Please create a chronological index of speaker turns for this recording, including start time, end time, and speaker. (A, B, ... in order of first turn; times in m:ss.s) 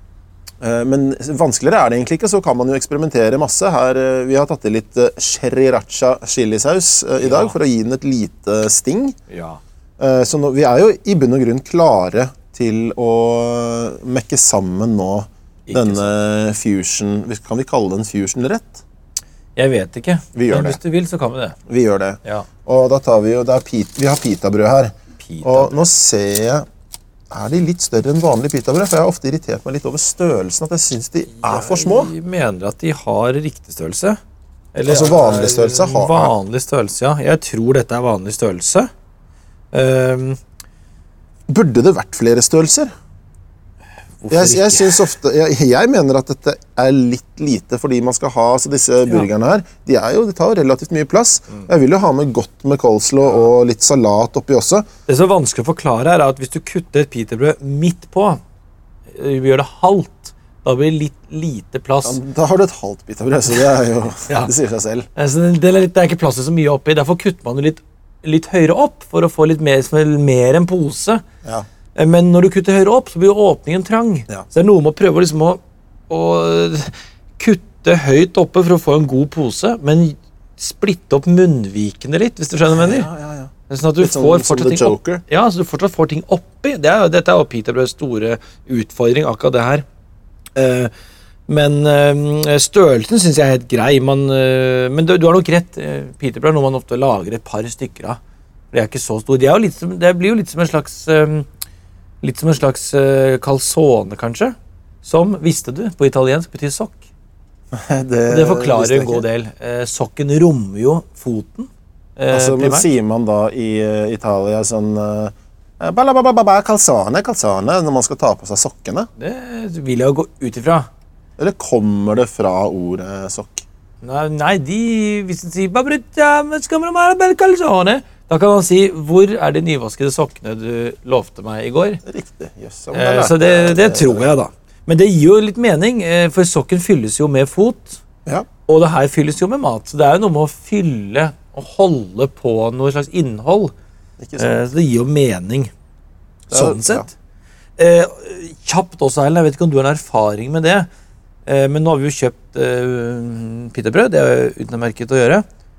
0:00.6-0:09.2 A
0:07.2-0:07.6 B
0:09.3-0:09.6 B
0:10.0-0:18.8 A
0:15.7-0:16.1 B
0:19.6-0:21.6 B
0:20.3-0:20.8 A
0:21.7-0:26.6 A
0:25.2-0:25.7 B
0:27.3-0:32.1 A
0:31.4-0:34.2 B
0:34.7-0:38.9 B
0:34.8-0:36.3 A
0:39.7-0:40.4 B
0:41.5-0:42.9 A
0:44.2-0:45.1 B
0:44.3-0:54.8 A
0:55.1-0:58.4 B
0:59.1-1:02.2 B
1:02.0-1:05.1 A
1:05.1-1:11.2 B
1:11.9-1:23.1 B
1:22.7-1:25.2 A
1:23.7-1:29.8 B
1:30.5-1:30.9 B
1:31.5-1:38.2 B
1:38.7-1:41.5 B
1:42.2-1:47.0 B
1:47.7-1:49.2 A
1:48.3-1:52.9 B
1:52.3-1:59.1 A
1:59.2-2:00.9 B
2:01.4-2:03.6 A
2:04.0-2:12.0 B
2:12.0-2:14.3 A
2:12.9-2:18.0 B
2:18.6-2:23.7 B
2:24.2-2:24.6 A
2:24.4-2:25.7 B
2:26.5-2:27.1 A
2:26.5-2:27.1 B
2:27.8-2:30.9 B
2:31.4-2:35.4 B